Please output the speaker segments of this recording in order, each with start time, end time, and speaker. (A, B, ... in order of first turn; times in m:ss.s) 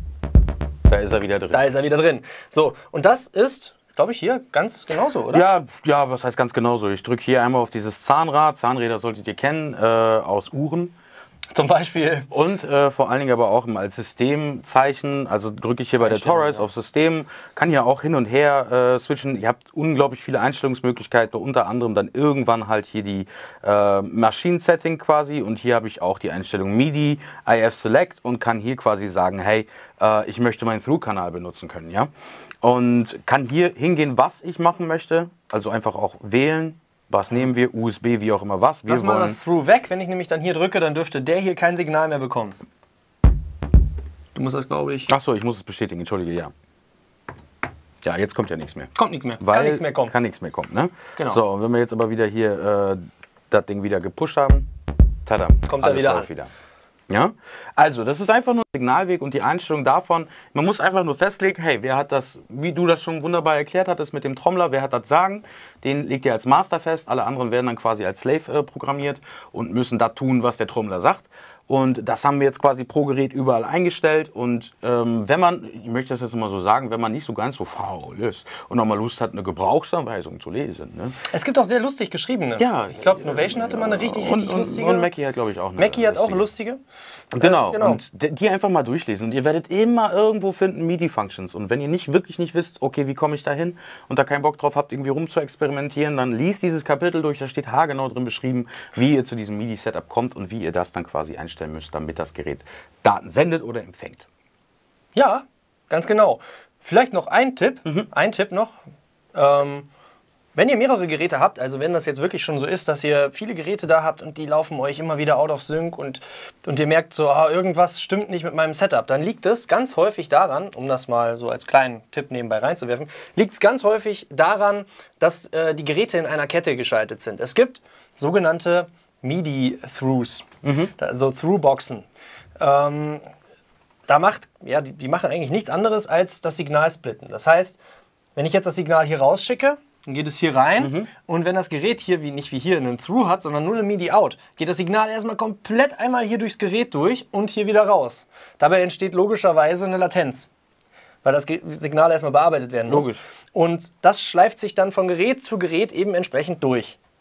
0:00.9-0:01.7 A
0:01.5-0:05.4 B
0:05.3-0:10.9 A
0:11.5-0:12.3 B
0:12.3-0:32.1 A
0:16.0-0:16.6 B
0:32.6-0:39.4 A
0:38.9-0:42.6 B
0:44.3-0:45.1 B
0:45.1-0:46.5 A
0:48.0-0:54.7 A
0:48.9-0:50.1 B
0:51.2-0:51.4 B
0:55.2-0:56.5 A
0:55.7-0:56.3 B
0:57.1-1:21.2 A
1:21.3-1:25.1 B
1:22.6-1:26.5 A
1:25.8-1:26.8 B
1:27.3-1:44.3 A
1:27.4-1:28.0 B
1:45.1-1:48.8 B
1:49.3-1:49.9 B
1:50.5-2:12.0 B
2:10.6-2:10.9 A
2:12.6-2:13.2 B
2:14.1-2:17.8 B
2:18.4-2:30.5 B
2:20.8-2:21.1 A
2:31.2-2:37.0 B
2:32.9-2:33.2 A